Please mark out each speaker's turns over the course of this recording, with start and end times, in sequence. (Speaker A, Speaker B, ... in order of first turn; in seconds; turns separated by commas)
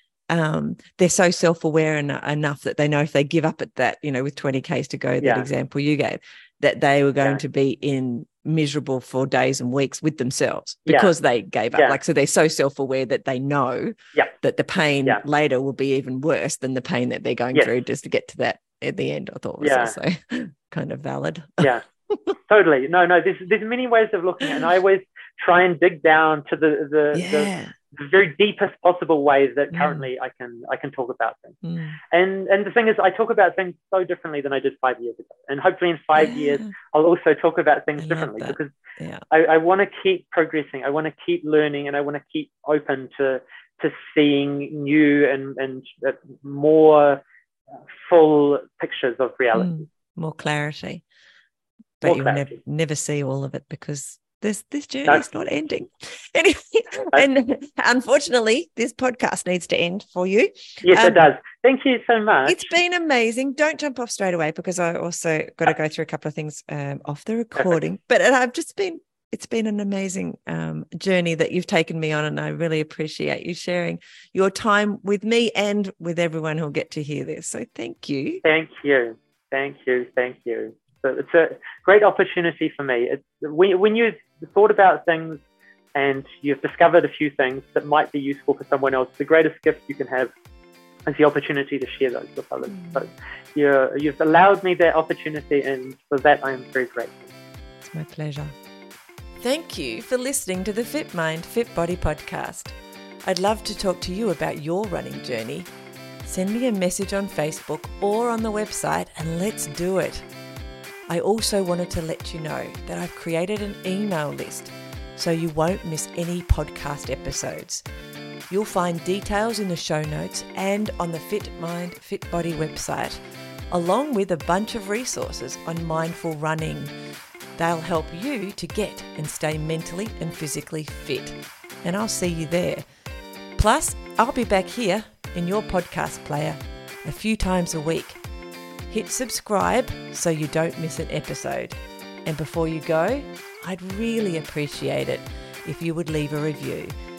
Speaker A: 0.3-22.3, Speaker B: 5.2-5.5, Speaker B: 10.8-11.1, Speaker B: 19.6-20.0, Speaker B: 22.5-31.6, Speaker A: 27.1-27.7, Speaker A: 29.7-30.0, Speaker A: 31.6-32.0, Speaker B: 32.1-38.7, Speaker A: 36.1-36.7, Speaker A: 38.0-39.2, Speaker B: 39.3-47.2, Speaker B: 47.9-49.9, Speaker A: 49.5-51.0, Speaker A: 52.0-61.2, Speaker B: 52.0-52.6, Speaker B: 60.8-62.7, Speaker A: 62.5-78.4, Speaker B: 78.4-85.4, Speaker B: 85.9-90.3, Speaker B: 91.1-97.3, Speaker A: 92.7-93.0, Speaker A: 97.8-98.5, Speaker A: 99.4-105.7, Speaker A: 106.2-110.3, Speaker A: 111.1-117.8, Speaker A: 118.5-126.9, Speaker A: 127.5-132.9, Speaker A: 133.6-138.2, Speaker A: 138.9-146.9